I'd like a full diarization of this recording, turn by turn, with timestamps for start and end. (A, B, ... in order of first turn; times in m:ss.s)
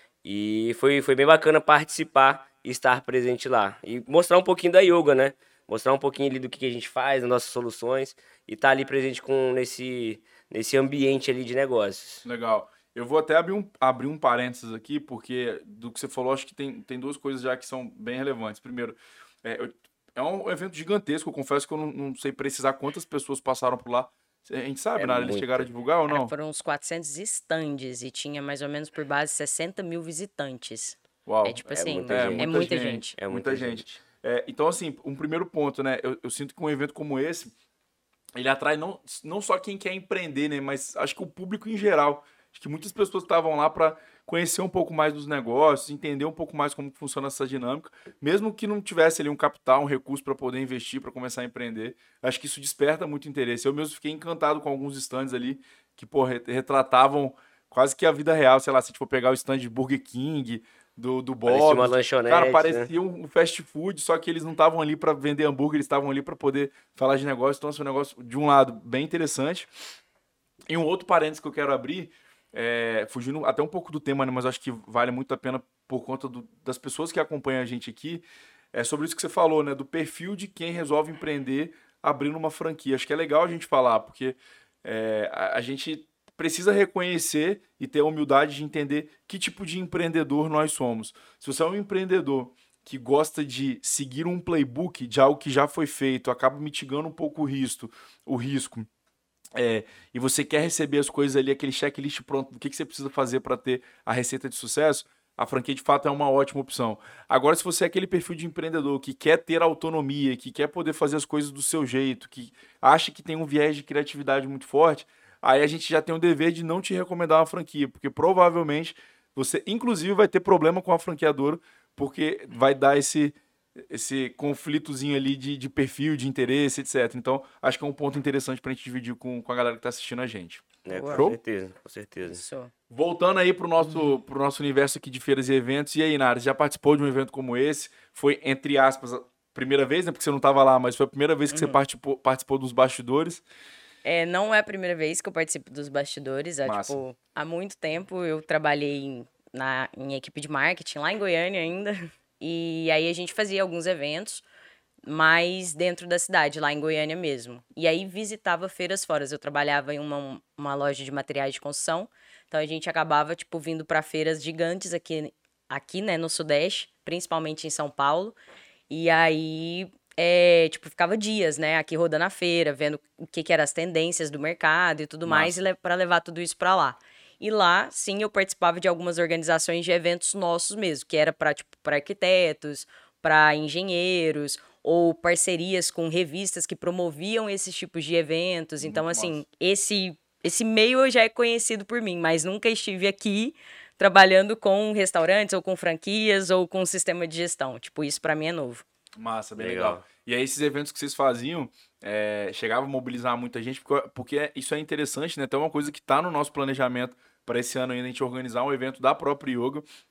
0:00.2-0:12.2 A
0:12.2-0:26.3 B
0:25.0-0:25.7 A
0:26.1-0:33.2 C
0:31.2-0:37.5 B
0:31.7-0:33.9 A
0:38.4-1:09.7 B
1:01.4-1:02.9 A
1:10.7-1:38.9 B
1:39.6-2:11.4 B
2:10.8-2:12.4 A
2:10.9-2:11.3 C
2:12.3-2:12.7 C
2:12.9-2:23.4 B
2:21.5-2:21.8 C
2:24.0-2:34.4 C
2:26.6-2:27.0 B
2:35.0-2:48.4 C
2:48.9-3:18.8 C
2:55.2-2:55.6 B
3:08.8-3:09.4 B
3:19.2-3:29.8 B
3:19.6-3:20.0 A